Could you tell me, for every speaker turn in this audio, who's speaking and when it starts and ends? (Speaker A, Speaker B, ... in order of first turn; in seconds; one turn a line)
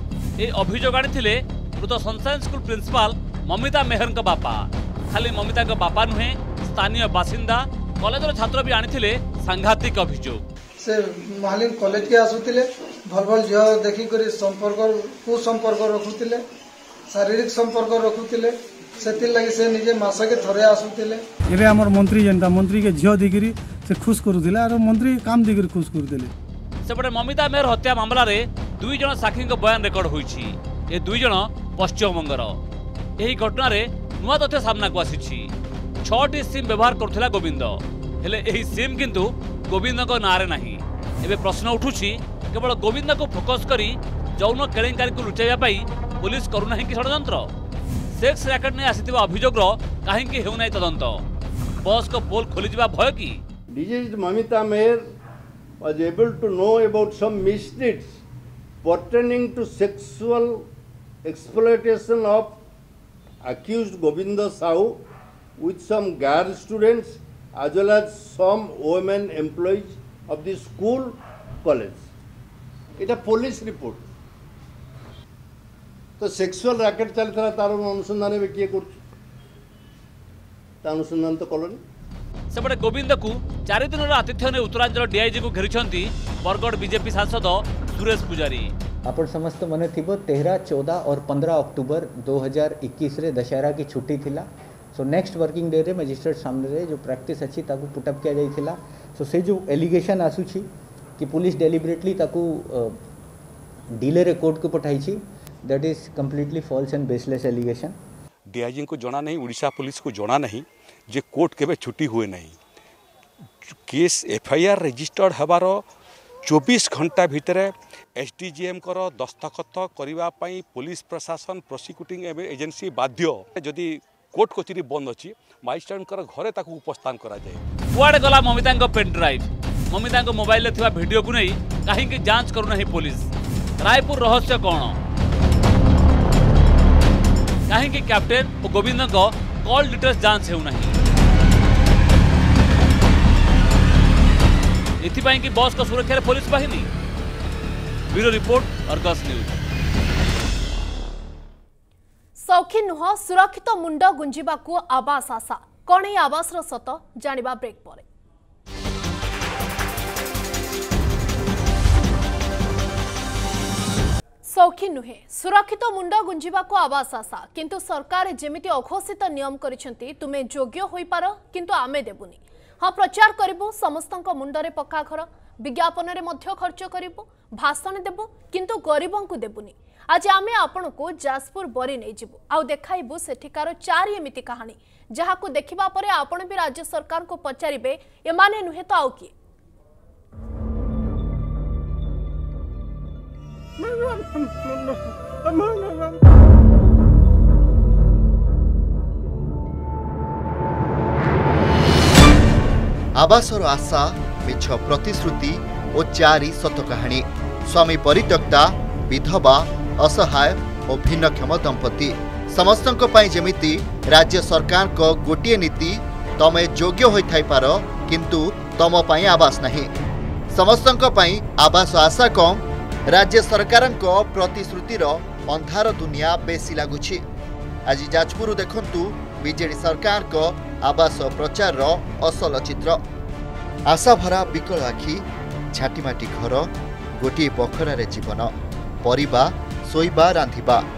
Speaker A: 0.4-10.4
Speaker B: 10.8-16.4
Speaker B: 17.1-21.2
Speaker C: 21.5-26.3
Speaker A: 26.9-32.6
Speaker A: 33.2-35.5
Speaker A: 36.0-47.5
Speaker A: 48.1-51.2
Speaker A: 51.8-53.4
Speaker D: 53.7-55.0
Speaker D: 55.8-58.2
Speaker D: 58.8-60.6
Speaker D: 61.2-62.6
Speaker D: 63.4-65.0
Speaker D: 65.6-72.1
Speaker D: 73.0-74.0
Speaker D: 76.2-79.0
Speaker D: 80.8-81.8
Speaker A: 82.5-88.7
Speaker E: 89.1-103.0
Speaker E: 104.0-108.0
Speaker F: 108.5-112.6
Speaker F: 113.7-115.8
Speaker F: 116.5-127.6
Speaker A: 127.9-135.0
Speaker A: 137.7-141.0
Speaker A: 145.0-146.9
Speaker A: 148.1-149.6
Speaker G: 152.4-158.1
Speaker G: 164.4-189.3
Speaker H: 203.2-219.9
Speaker H: 220.5-227.2
Speaker H: 227.9-233.0
Speaker H: 233.9-240.8